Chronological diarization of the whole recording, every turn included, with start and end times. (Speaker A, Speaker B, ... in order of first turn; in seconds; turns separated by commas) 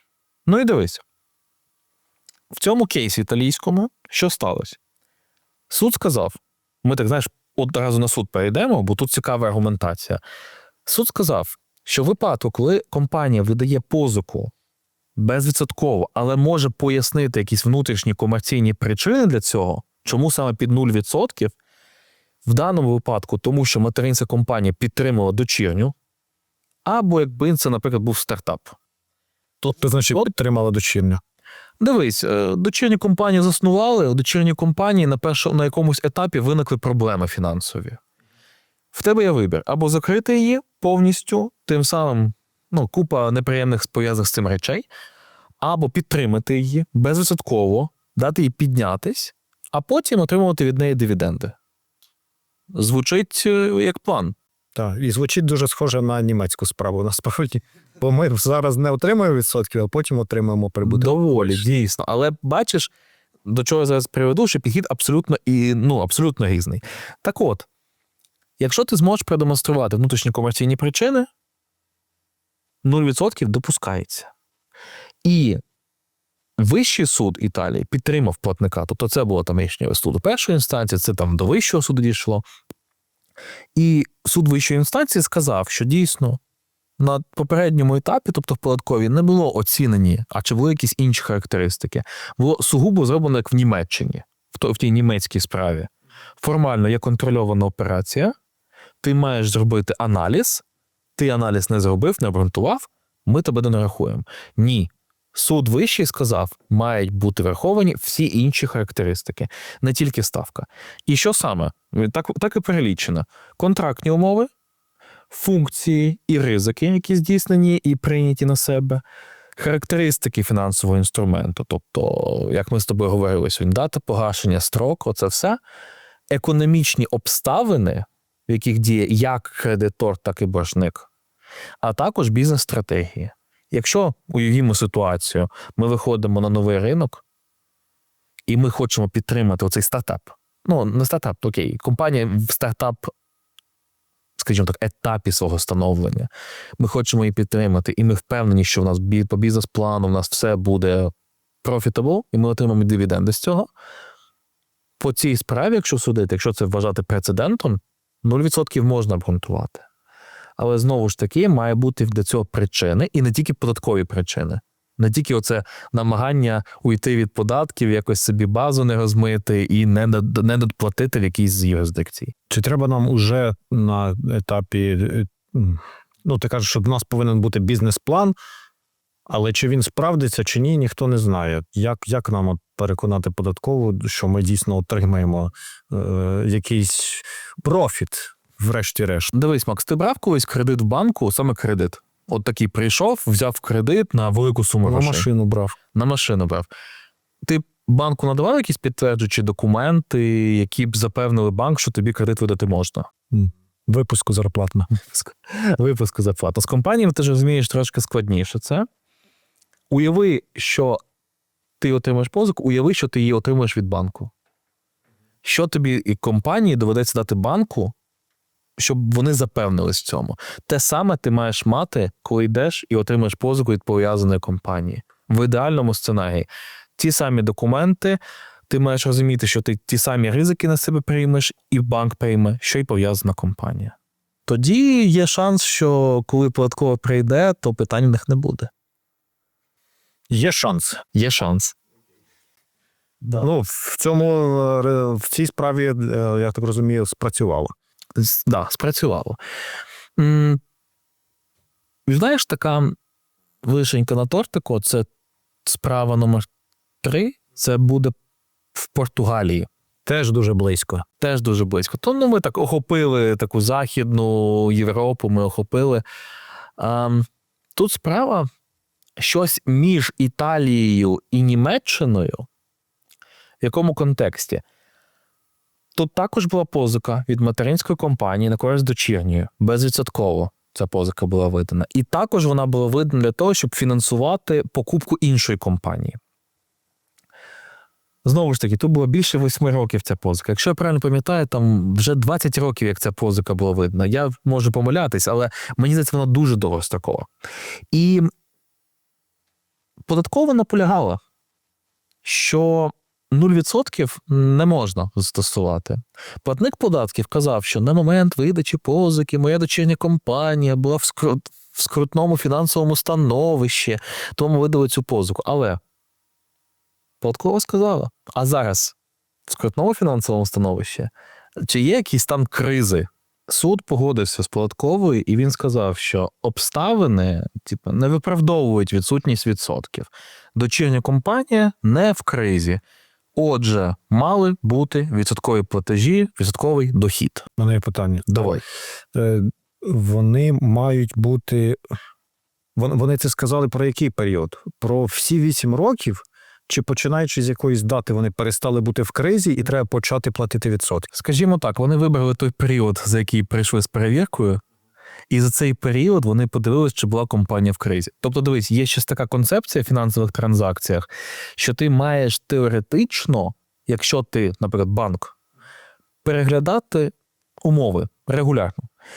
Speaker A: 0.5-1.0, Speaker A: 2.5-4.8, Speaker A: 5.7-10.2, Speaker A: 10.8-14.5, Speaker A: 15.2-21.5, Speaker A: 22.4-25.9, Speaker A: 26.9-28.8, Speaker B: 29.6-31.2, Speaker A: 31.8-38.0, Speaker A: 38.9-44.9, Speaker A: 45.6-51.5, Speaker A: 52.7-54.3, Speaker B: 54.7-61.6, Speaker A: 60.8-62.9, Speaker A: 63.5-67.7, Speaker A: 68.6-71.3, Speaker A: 72.8-74.3, Speaker A: 75.2-75.6, Speaker A: 76.6-82.5, Speaker A: 83.7-86.4, Speaker A: 87.0-98.3, Speaker A: 99.0-100.6, Speaker A: 101.2-114.5, Speaker A: 115.3-119.0, Speaker A: 119.6-125.6, Speaker A: 126.3-131.1, Speaker A: 131.8-137.2, Speaker A: 138.5-143.1, Speaker A: 144.4-151.1, Speaker A: 151.6-153.7, Speaker A: 155.0-159.8, Speaker A: 160.6-172.3, Speaker B: 172.5-178.3, Speaker B: 179.3-189.3, Speaker A: 189.3-195.3, Speaker B: 194.8-195.8, Speaker A: 195.9-196.7, Speaker A: 197.4-203.1, Speaker B: 203.3-204.9, Speaker A: 204.9-208.9, Speaker A: 209.9-211.0, Speaker A: 211.8-214.3, Speaker A: 215.4-217.9, Speaker A: 218.8-233.9, Speaker A: 234.5-238.7, Speaker B: 240.3-241.0, Speaker A: 241.1-241.7, Speaker B: 243.4-247.7, Speaker A: 248.2-249.4, Speaker A: 250.2-250.6, Speaker A: 252.1-252.9, Speaker A: 253.6-255.1, Speaker A: 255.7-256.5, Speaker A: 257.0-258.1, Speaker A: 258.7-259.7, Speaker B: 260.1-261.0, Speaker A: 261.2-266.0, Speaker A: 266.8-268.5, Speaker A: 269.2-272.4, Speaker A: 273.6-274.6, Speaker A: 275.9-286.2, Speaker A: 288.2-297.3, Speaker A: 297.9-298.3, Speaker A: 300.1-301.2, Speaker A: 302.2-315.8, Speaker A: 317.2-318.9, Speaker A: 319.5-321.1, Speaker A: 321.6-332.8, Speaker A: 333.4-337.4, Speaker B: 337.6-338.6, Speaker A: 338.3-338.6, Speaker B: 339.1-341.8, Speaker B: 342.8-351.1, Speaker A: 351.1-354.6, Speaker A: 355.3-365.4, Speaker A: 366.2-368.9